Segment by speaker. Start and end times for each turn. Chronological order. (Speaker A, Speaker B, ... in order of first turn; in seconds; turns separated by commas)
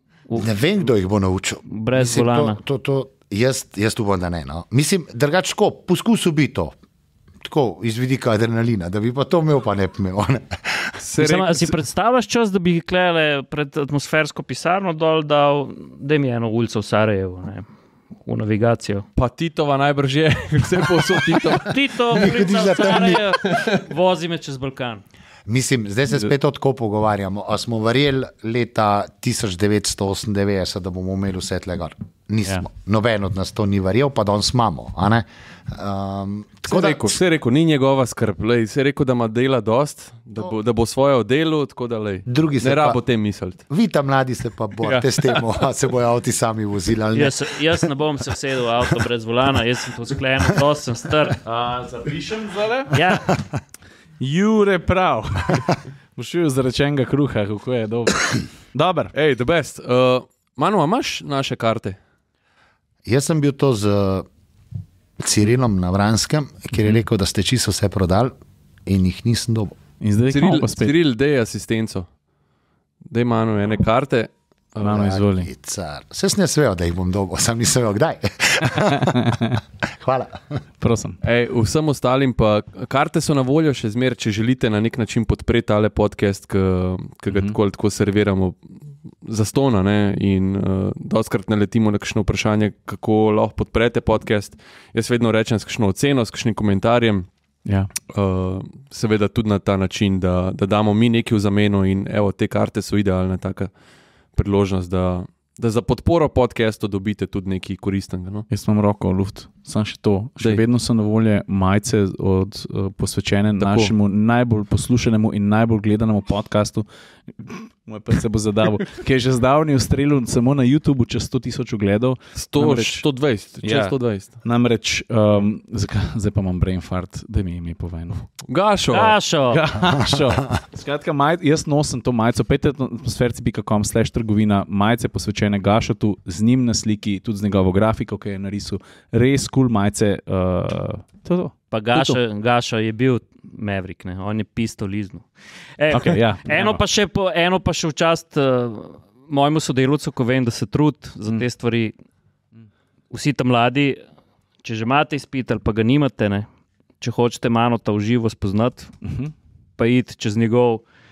Speaker A: 0.3-6.8, Speaker B: 1.7-2.6, Speaker A: 7.4-11.0, Speaker C: 11.0-11.7, Speaker B: 11.2-17.7, Speaker B: 18.2-19.1, Speaker C: 19.2-22.5, Speaker B: 21.6-25.0, Speaker A: 22.1-23.2, Speaker C: 23.4-23.8, Speaker A: 25.5-37.2, Speaker C: 36.7-43.6, Speaker A: 42.3-43.0, Speaker A: 43.7-47.9, Speaker C: 44.8-45.6, Speaker B: 47.1-51.4, Speaker D: 51.4-53.0, Speaker B: 52.9-53.4, Speaker D: 54.2-59.1, Speaker C: 59.1-62.0, Speaker A: 63.0-64.3, Speaker A: 65.2-68.3, Speaker A: 68.9-69.8, Speaker D: 70.0-70.9, Speaker C: 70.3-72.1, Speaker C: 73.1-74.9, Speaker D: 74.8-75.5, Speaker A: 74.8-80.4, Speaker D: 78.7-79.6, Speaker D: 80.8-81.2, Speaker C: 81.2-97.3, Speaker D: 87.3-87.6, Speaker D: 97.7-97.9, Speaker C: 98.1-103.7, Speaker C: 104.3-108.5, Speaker D: 108.5-123.0, Speaker C: 113.6-113.9, Speaker C: 122.3-124.3, Speaker D: 123.6-128.3, Speaker C: 128.4-129.2, Speaker B: 128.9-129.6, Speaker D: 129.5-142.2, Speaker A: 129.8-130.6, Speaker B: 141.7-151.9, Speaker D: 145.9-146.8, Speaker B: 153.1-154.0, Speaker B: 154.6-156.5, Speaker B: 157.0-158.9, Speaker D: 159.0-159.3, Speaker B: 159.8-160.8